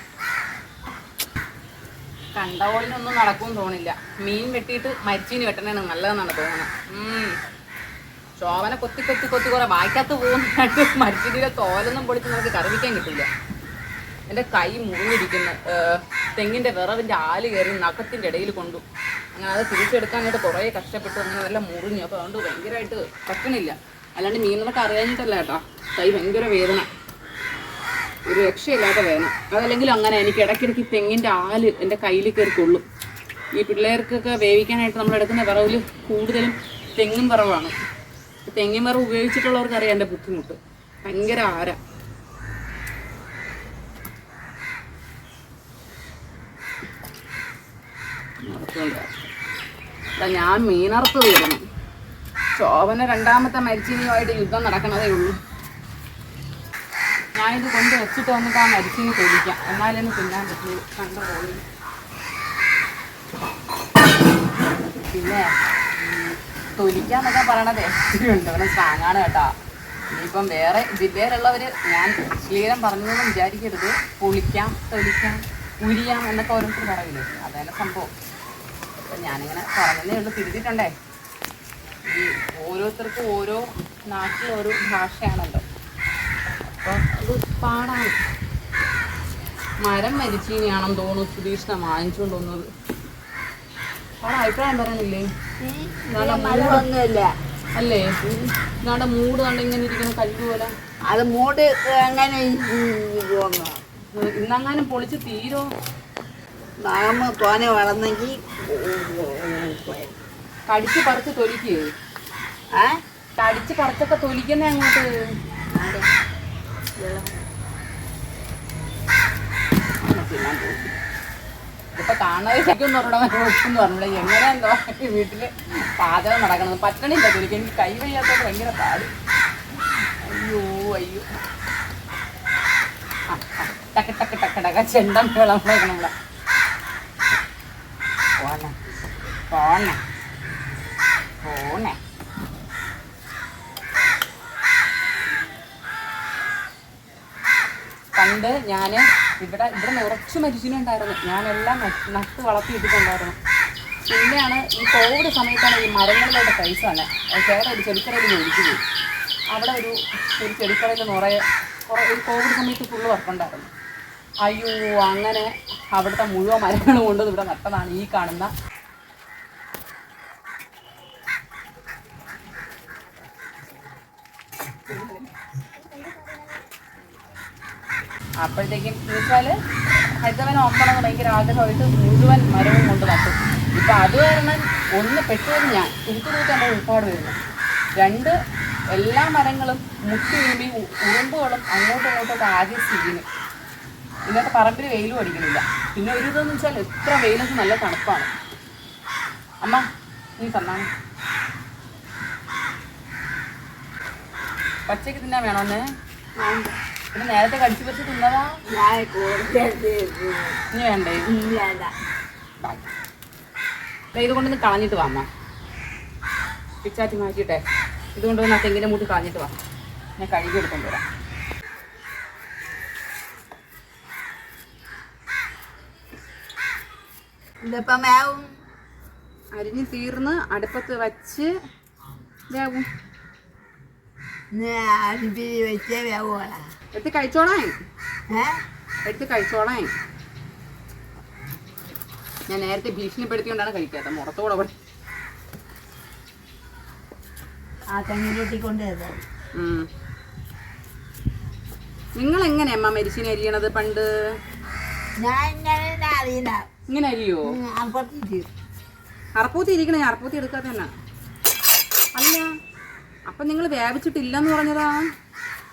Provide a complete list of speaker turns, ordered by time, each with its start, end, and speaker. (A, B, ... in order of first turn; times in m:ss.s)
0:02.4-0:07.3 A
0:08.4-0:13.3 A
0:14.3-0:18.8 A
0:19.4-0:26.9 A
0:28.3-0:32.8 A
0:33.6-0:37.8 A
0:38.5-0:41.8 A
0:48.4-0:49.2 A
0:50.2-0:51.6 A
0:52.6-0:55.4 A
0:57.4-1:01.6 A
1:05.1-1:09.5 A
1:10.1-1:18.1 A
1:19.1-1:20.9 A
1:22.1-1:25.6 A
1:26.7-1:28.1 A
1:29.8-1:32.7 A
1:34.2-1:35.3 A
1:35.6-1:37.3 B
1:36.1-1:36.9 A
1:37.8-1:38.2 A
1:38.8-1:40.7 A
1:41.1-1:43.8 B
1:44.2-1:45.7 A
1:46.8-1:50.1 B
1:50.7-1:51.8 A
1:53.4-1:55.1 A
1:55.7-1:56.1 B
1:57.0-1:57.4 B
2:00.0-2:00.9 A
2:02.0-2:09.1 A
2:10.2-2:11.3 A
2:13.3-2:16.1 A
2:18.4-2:18.7 A
2:19.5-2:20.0 A
2:21.4-2:22.0 A
2:28.2-2:33.4 A
2:34.0-2:38.8 A
2:39.5-2:43.7 A
2:44.5-2:48.5 A
2:58.4-2:59.6 A
3:00.2-3:07.4 A
3:08.0-3:08.4 A
3:08.9-3:13.2 A
3:14.3-3:18.3 A
3:20.4-3:20.9 A
3:24.9-3:25.8 A
3:26.4-3:26.8 B
3:27.1-3:28.5 A
3:28.7-3:30.6 B
3:30.7-3:31.3 A
3:31.3-3:31.9 B
3:34.1-3:35.3 A
3:36.8-3:37.6 A
3:38.2-3:39.5 A
3:40.2-3:41.0 A
3:47.6-3:48.5 B
3:49.6-3:51.5 A
3:52.5-3:52.9 A
3:54.5-3:56.6 B
3:56.9-3:57.8 A
3:58.3-3:58.6 B
3:59.0-3:59.9 A
4:02.5-4:04.7 A
4:07.9-4:09.2 B
4:09.6-4:09.9 A
4:12.2-4:14.1 A
4:15.2-4:16.6 B
4:16.9-4:17.5 A
4:17.5-4:18.5 B
4:19.4-4:20.9 A
4:22.2-4:22.5 A
4:23.3-4:25.0 A